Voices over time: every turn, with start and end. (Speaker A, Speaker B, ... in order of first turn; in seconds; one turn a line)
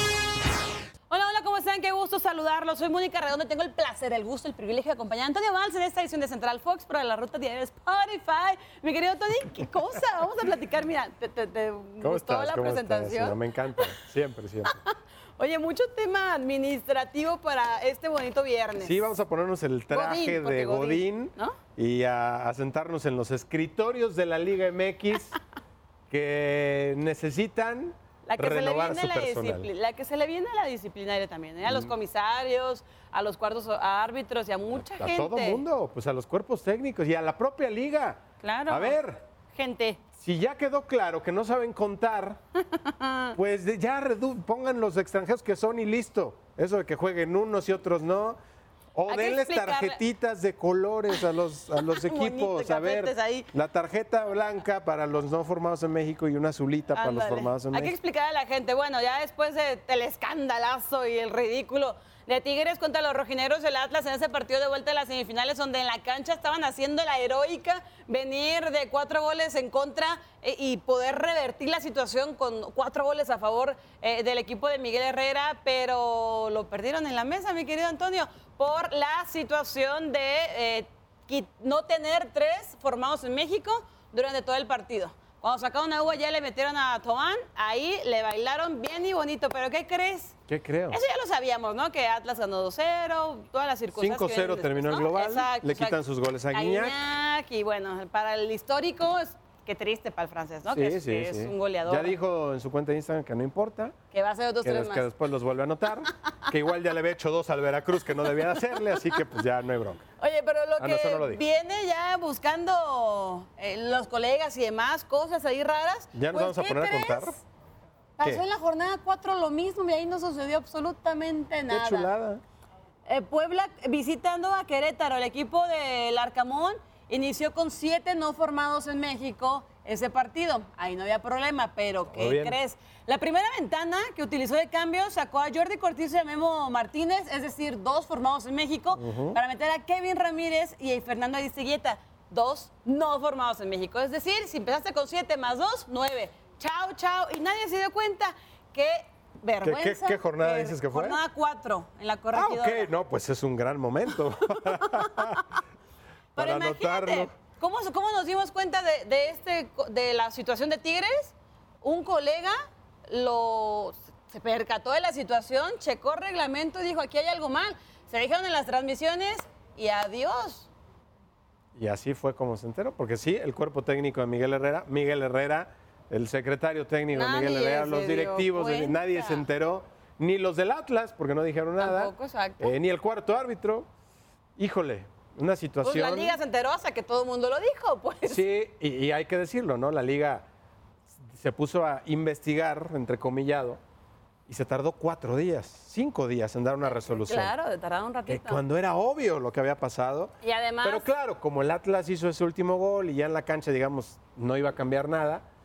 Speaker A: 1.1-13.9
Speaker B: 12.0-14.8
Speaker A: 14.6-19.1
Speaker B: 18.8-25.4
Speaker A: 19.9-21.6
Speaker B: 26.1-29.7
Speaker A: 28.2-35.6
Speaker B: 31.6-31.9
Speaker B: 34.7-39.2
Speaker A: 38.4-40.0
Speaker B: 40.2-42.4
Speaker A: 42.7-43.4
Speaker B: 43.3-48.4
Speaker B: 48.9-57.9
Speaker A: 49.1-50.0
Speaker A: 51.1-53.5
Speaker A: 56.9-90.3
Speaker B: 90.5-91.0
Speaker A: 90.9-96.0
Speaker B: 93.9-97.0
Speaker A: 96.5-102.2
Speaker B: 100.7-103.9
Speaker A: 104.1-105.1
Speaker B: 104.6-110.0
Speaker A: 108.8-109.2
Speaker A: 110.2-117.4
Speaker B: 110.8-111.4
Speaker B: 116.1-117.3
Speaker A: 118.2-122.1
Speaker B: 118.2-118.4
Speaker B: 121.7-122.4
Speaker A: 123.0-152.9
Speaker B: 132.1-132.6
Speaker B: 138.9-139.4
Speaker B: 149.6-151.2
Speaker B: 152.3-155.5
Speaker A: 154.4-155.4
Speaker A: 156.3-162.5
Speaker B: 156.3-157.3
Speaker A: 163.1-170.7
Speaker B: 171.7-183.9
Speaker A: 177.1-179.4
Speaker A: 181.8-182.8
Speaker B: 184.6-186.4
Speaker A: 185.8-188.4
Speaker B: 188.2-190.5
Speaker B: 191.2-193.8
Speaker B: 194.5-197.5
Speaker A: 196.8-198.6
Speaker B: 198.3-205.4
Speaker A: 200.4-201.1